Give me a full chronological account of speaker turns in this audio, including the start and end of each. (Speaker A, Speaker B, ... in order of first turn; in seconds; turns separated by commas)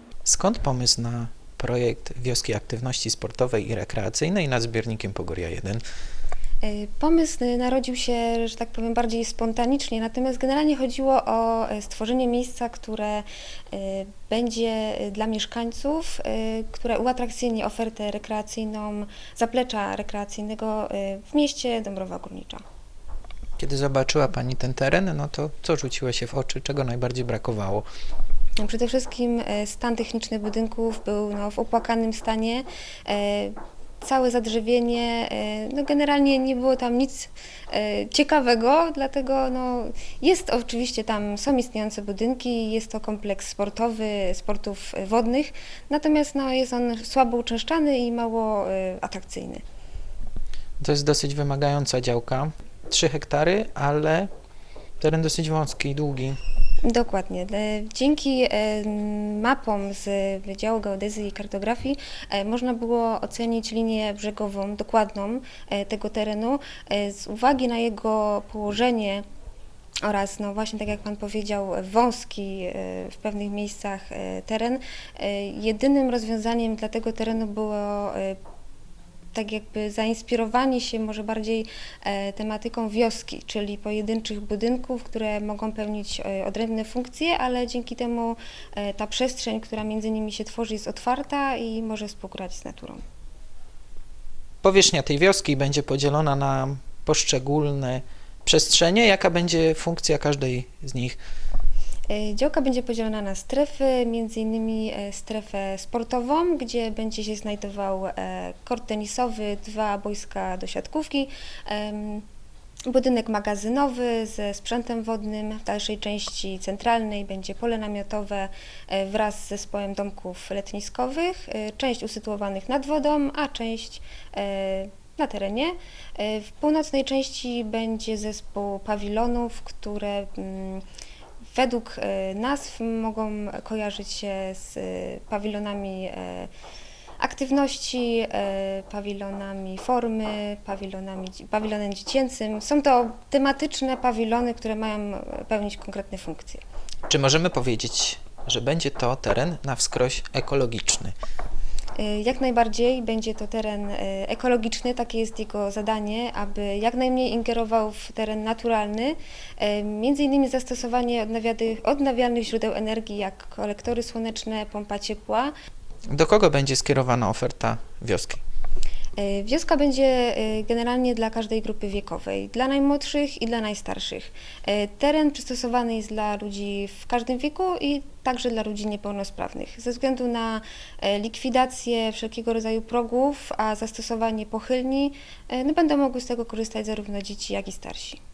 Speaker A: 0.2-5.8, Speaker B: 6.6-22.6, Speaker A: 23.6-27.9, Speaker B: 28.6-49.6, Speaker A: 50.8-54.3, Speaker A: 55.0-56.4, Speaker B: 56.9-69.2, Speaker B: 70.0-78.4, Speaker B: 79.3-93.0, Speaker A: 94.6-101.2, Speaker B: 102.1-112.2, Speaker B: 112.9-130.8, Speaker B: 131.5-136.5, Speaker B: 137.2-146.6, Speaker A: 147.1-151.1, Speaker B: 152.0-165.5, Speaker A: 166.1-168.4, Speaker B: 169.2-188.2